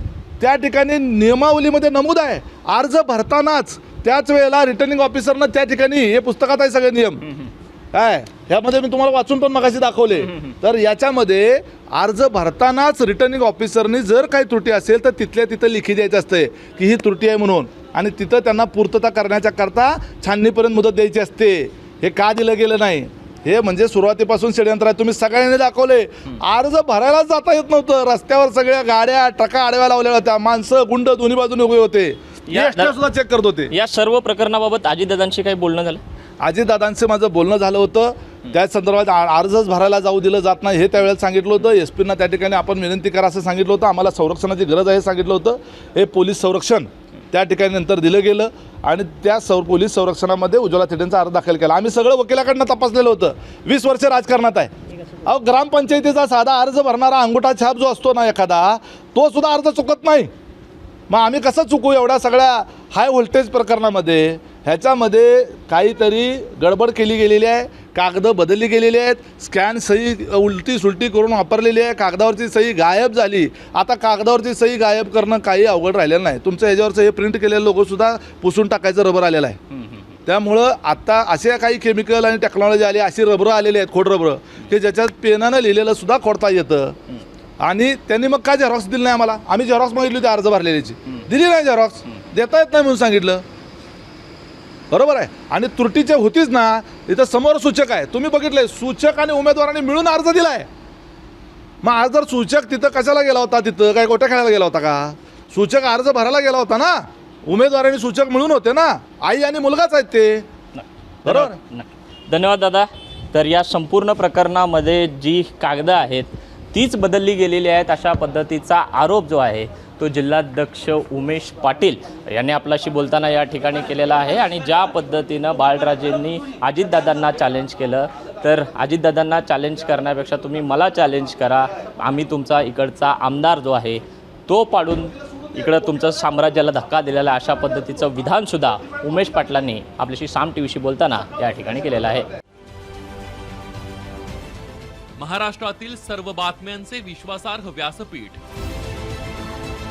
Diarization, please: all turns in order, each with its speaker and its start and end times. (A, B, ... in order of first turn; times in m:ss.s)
0:00.4-0:07.2 A
0:07.9-0:33.7 A
0:10.2-0:10.5 B
0:32.5-0:33.0 B
0:33.7-0:36.0 B
0:36.4-0:54.7 A
0:55.2-1:00.3 A
1:01.1-1:19.6 A
1:19.7-1:20.0 B
1:20.2-1:27.0 A
1:27.6-1:33.4 A
1:34.9-1:40.7 A
1:41.8-1:50.5 A
1:50.7-2:22.3 B
1:51.2-1:51.6 A
2:25.2-2:28.4 C